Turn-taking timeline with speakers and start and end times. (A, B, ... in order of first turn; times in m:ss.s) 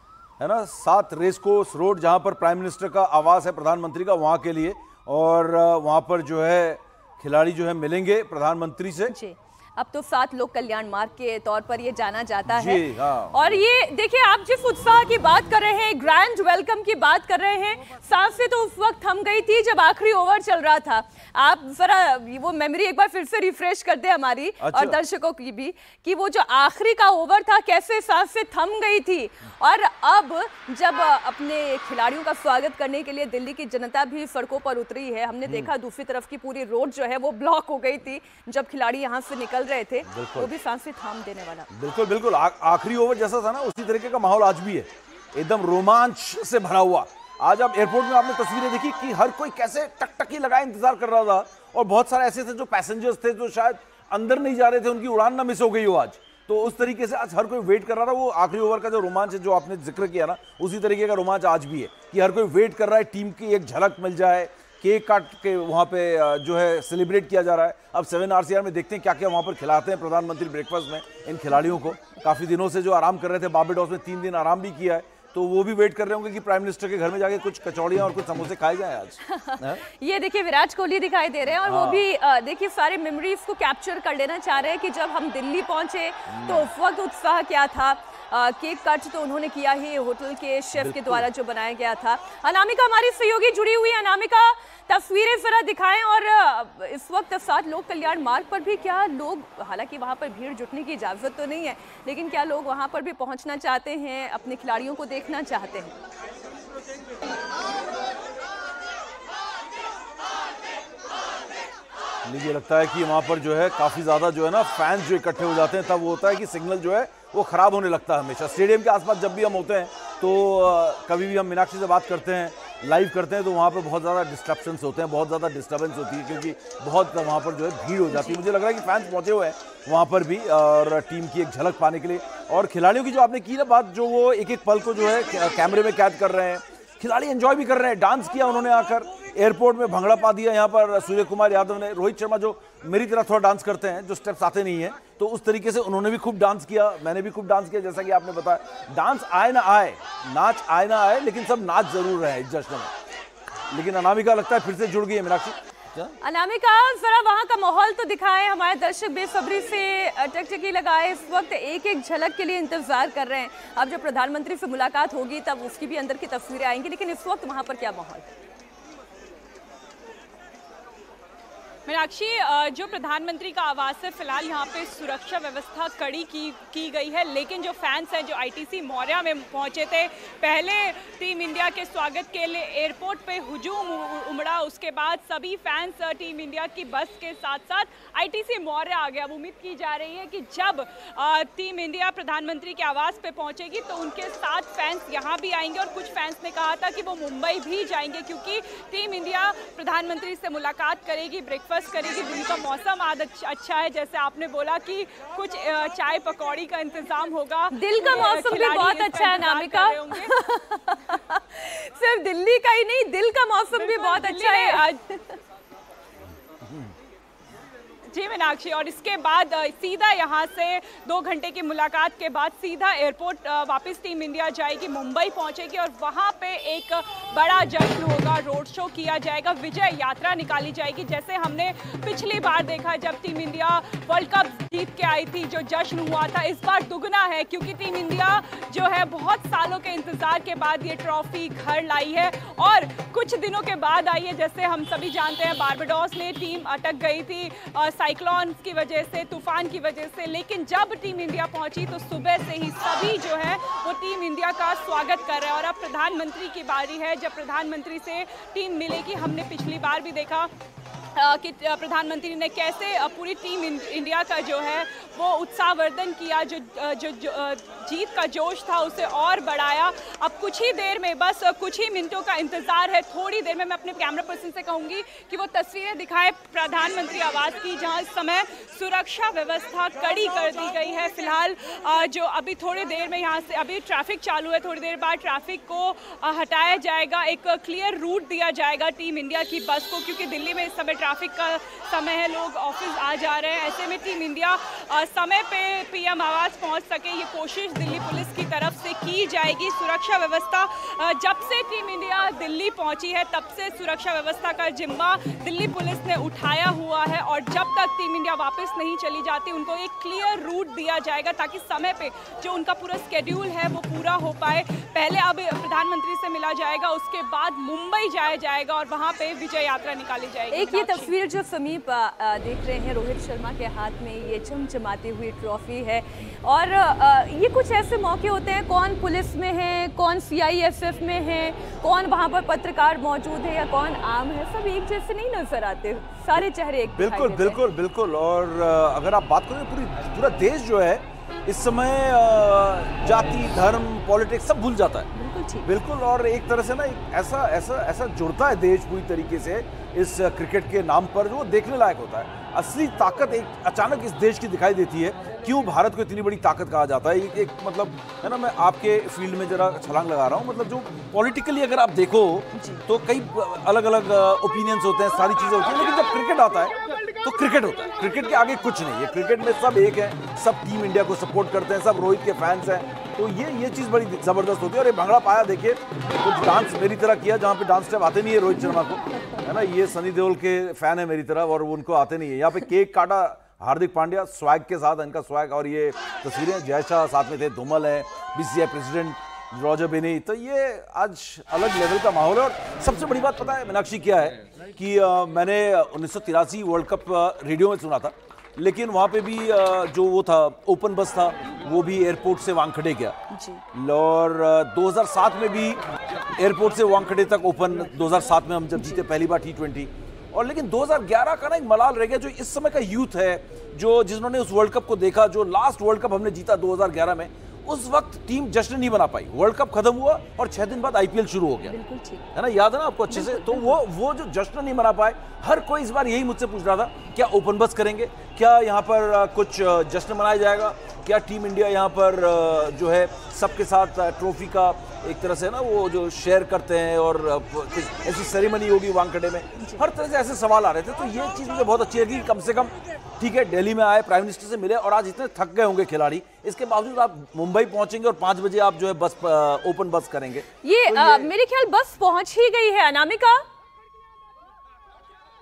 0:00.4-0:09.1 A
0:09.1-0:41.7 B
0:12.5-0:13.6 A
0:24.6-0:25.0 A
0:35.4-0:35.7 A
0:40.0-0:40.5 A
0:41.7-1:19.8 A
1:19.2-1:46.0 B
1:21.6-1:22.0 A
1:26.3-1:26.7 A
1:30.7-1:31.3 A
1:52.2-2:32.9 A
2:08.1-2:08.4 B
2:33.7-2:36.1 A
2:36.2-2:48.4 B
2:51.9-3:30.3 C
3:27.7-3:35.4 B
3:33.7-3:35.0 C
3:36.6-3:36.9 A
3:38.1-4:20.5 C
4:21.2-5:21.1 C
5:20.5-5:37.6 B
5:36.9-5:45.1 A
5:45.1-5:45.7 B
5:45.6-6:43.2 A
6:02.5-6:02.8 B
6:43.3-6:43.6 B
6:43.7-6:45.8 A
6:46.3-7:01.8 A
6:48.7-6:49.0 B
7:01.7-7:02.2 B
7:02.3-7:31.3 A
7:03.1-7:03.8 B
7:19.6-7:19.8 B
7:30.6-7:33.4 B